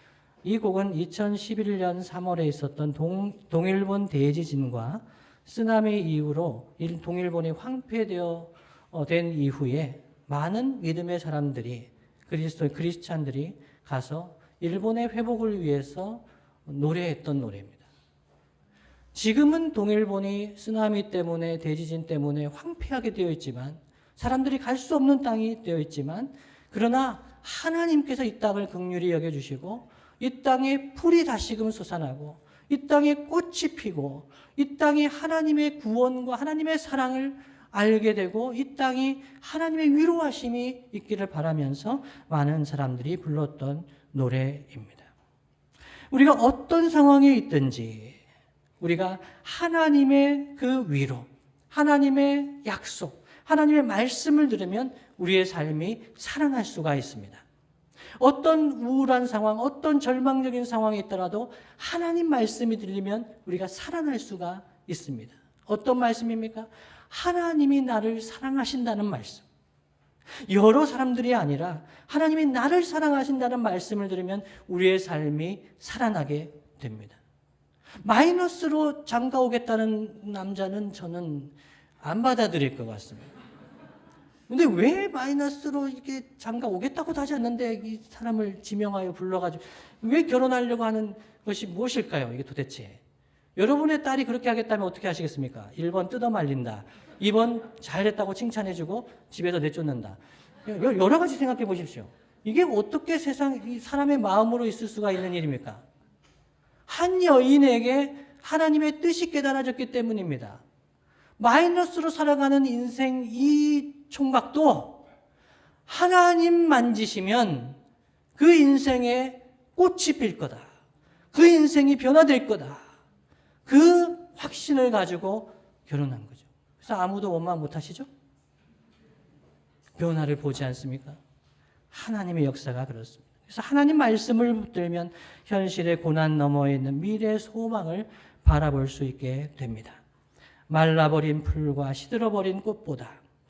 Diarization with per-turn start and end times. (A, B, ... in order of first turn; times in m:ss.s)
0:00.4-0:17.8 A
0:19.1-0:45.1 A
0:46.1-0:48.2 A
0:48.8-0:57.4 A
0:58.2-1:09.5 A
1:10.4-1:17.2 A
1:18.0-1:23.3 A
1:24.5-1:33.0 A
1:33.6-1:45.8 A
1:46.9-1:50.6 A
1:51.4-1:55.0 A
1:55.9-1:57.8 A
1:58.4-2:00.7 A
2:01.3-2:02.8 A
2:03.7-2:08.1 A
2:10.0-2:11.2 A
2:11.9-2:20.0 A
2:20.7-2:23.2 A